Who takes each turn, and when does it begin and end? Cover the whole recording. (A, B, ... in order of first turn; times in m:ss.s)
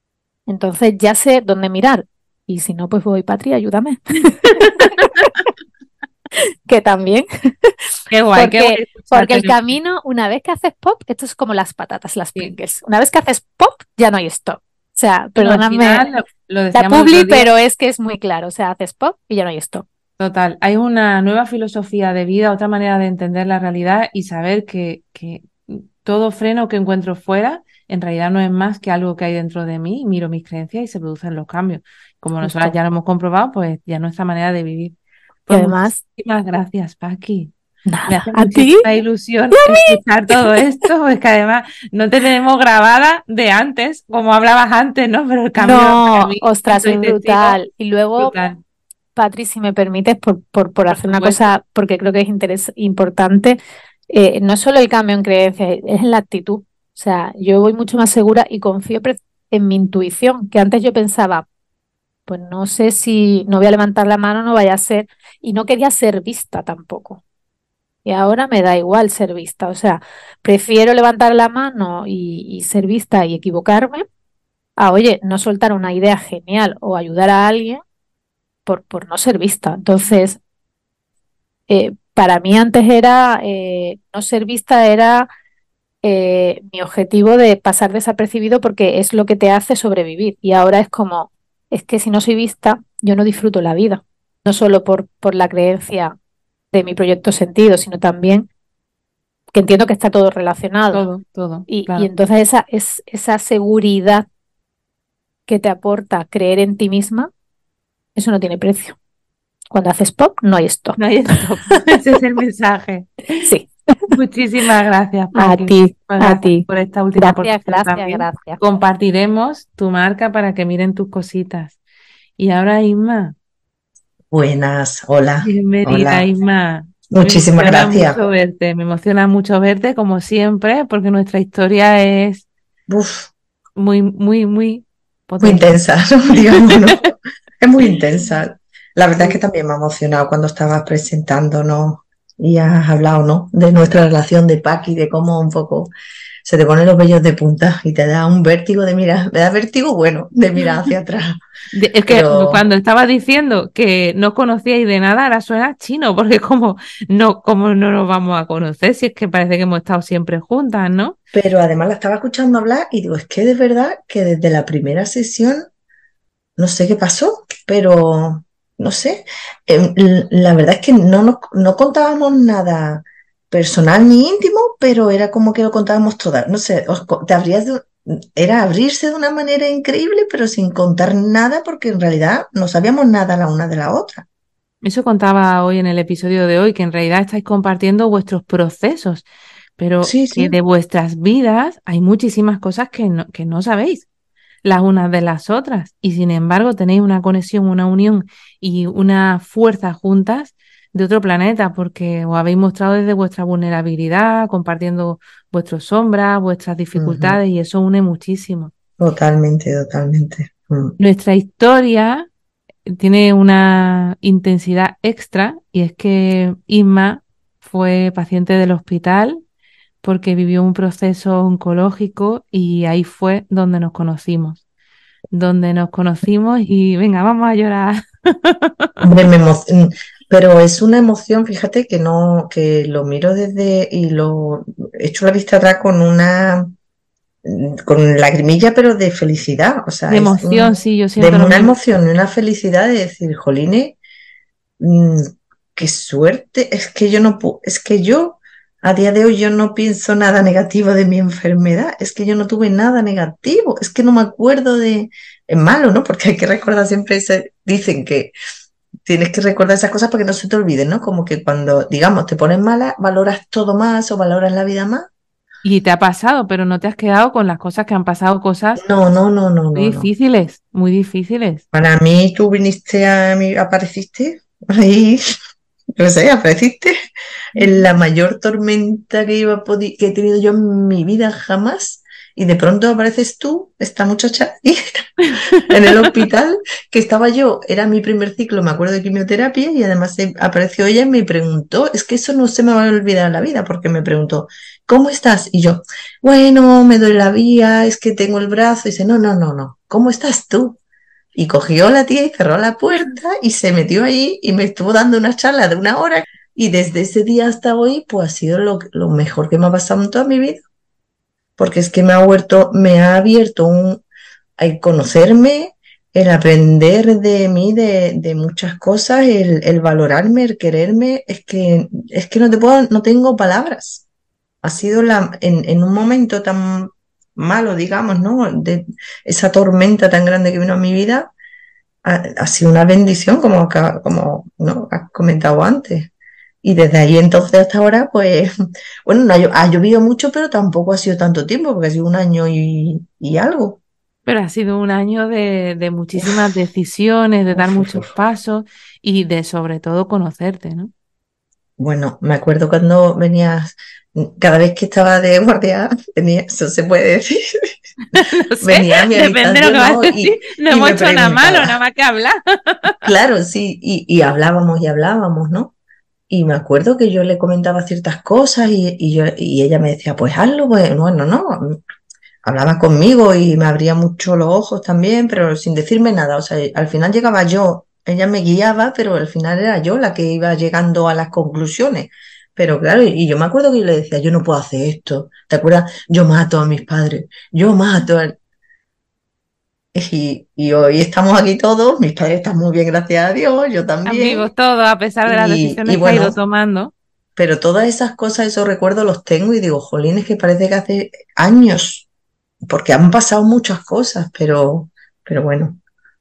0:00.5-0:05.3 A
0:04.6-0:05.4 B
0:06.7-0:07.8 A
0:08.1-0:09.6 B
0:08.3-0:16.1 A
0:15.4-0:17.5 B
0:16.7-0:19.8 A
0:20.2-0:37.5 B
0:32.4-0:32.8 A
0:35.5-0:36.0 A
0:37.9-0:38.9 A
0:38.1-0:47.6 B
0:45.6-0:48.3 A
0:48.2-0:48.6 B
0:49.2-0:53.6 A
0:50.9-0:51.5 B
0:54.1-1:01.5 A
1:02.3-1:07.2 A
1:08.0-1:14.0 A
1:14.8-1:17.8 A
1:18.7-1:20.4 A
1:21.7-1:25.3 A
1:26.0-1:36.2 A
1:36.7-1:38.5 A
1:39.5-1:41.0 A
1:40.9-1:42.1 B
1:41.7-1:44.3 A
1:45.5-1:47.3 A
1:48.2-1:49.0 A
1:49.7-1:51.0 A
1:51.0-1:53.4 B
1:53.4-1:54.1 A
1:54.1-2:01.8 B
1:55.4-1:58.6 A
2:02.4-2:03.4 B
2:04.3-2:06.3 C
2:05.4-2:12.5 B
2:07.1-2:08.2 C
2:12.9-2:13.3 C
2:13.8-2:15.8 B
2:15.4-2:25.9 C
2:16.5-2:16.8 B
2:26.4-2:31.4 C
2:31.7-2:41.2 B
2:32.1-2:32.6 C
2:41.3-2:45.6 C
2:46.6-3:04.3 C
3:04.8-3:09.3 B
3:09.8-3:14.1 B
3:10.0-3:10.6 C
3:14.6-3:28.7 B
3:27.0-3:27.4 C
3:29.0-3:31.0 C
3:31.0-3:32.3 B
3:32.9-3:39.4 B
3:40.0-3:44.6 B
3:45.3-3:48.9 B
3:49.0-3:56.7 C
3:57.4-4:04.0 C
4:00.1-4:01.8 B
4:04.8-4:18.3 C
4:19.0-4:25.1 C
4:25.6-4:28.8 B
4:28.8-4:30.1 C
4:29.8-4:31.6 B
4:31.7-4:35.3 C
4:36.0-4:37.0 C
4:37.6-5:00.8 C
4:45.3-4:46.1 B
5:01.4-5:10.6 C
5:11.6-5:14.0 C
5:14.6-5:24.0 C
5:24.6-5:31.3 C
5:32.0-5:36.1 C
5:36.6-5:38.5 C
5:39.0-5:43.8 C
5:44.2-5:50.9 B
5:47.5-5:48.1 C
5:51.8-5:57.4 C
5:58.1-6:03.1 B
5:58.2-6:01.8 C
6:03.0-6:05.7 C
6:06.3-6:11.8 C
6:12.4-6:28.4 C
6:29.9-6:34.5 C
6:34.0-6:36.9 B
6:35.3-6:36.4 C
6:37.4-6:42.1 C
6:42.7-6:45.8 C